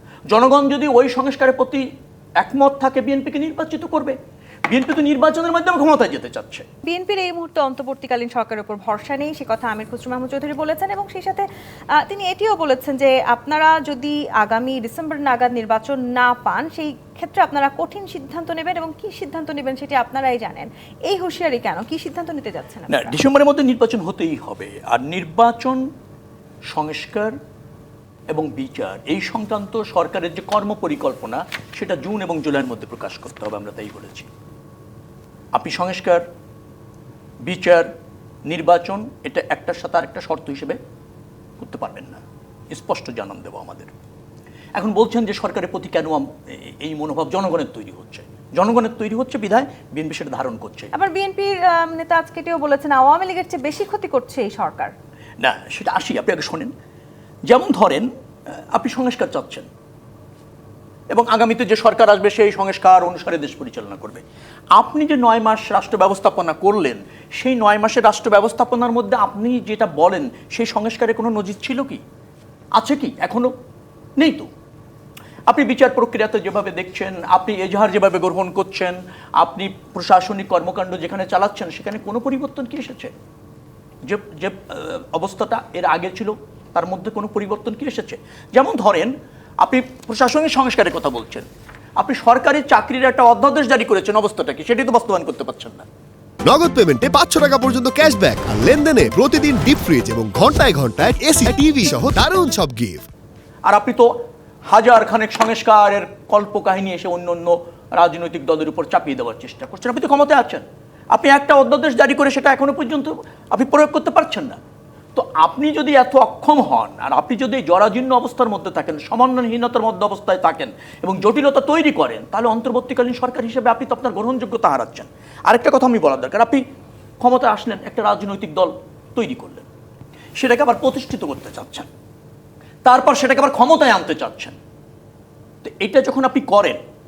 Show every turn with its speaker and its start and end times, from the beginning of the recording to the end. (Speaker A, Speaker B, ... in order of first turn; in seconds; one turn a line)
Speaker A: 0.3-1.9
Speaker A: 2.4-4.2
Speaker A: 4.7-6.7
Speaker B: 6.8-23.2
Speaker A: 22.9-25.9
Speaker A: 26.7-27.4
Speaker A: 28.3-34.3
Speaker A: 35.5-36.2
Speaker A: 37.4-37.9
Speaker A: 38.5-40.8
Speaker A: 41.6-43.9
Speaker A: 44.7-50.9
Speaker B: 50.9-54.9
Speaker A: 55.4-56.7
Speaker A: 57.5-59.7
Speaker A: 61.1-64.2
Speaker A: 64.7-72.0
Speaker A: 72.7-73.5
Speaker A: 74.2-74.5
Speaker A: 75.5-83.1
Speaker A: 84.0-91.5
Speaker A: 92.0-95.8
Speaker C: 96.4-103.0
Speaker A: 103.7-104.1
Speaker A: 104.7-114.6
Speaker A: 115.1-126.6
Speaker A: 127.2-129.7
Speaker A: 130.4-131.9
Speaker A: 132.8-134.6
Speaker A: 135.6-136.8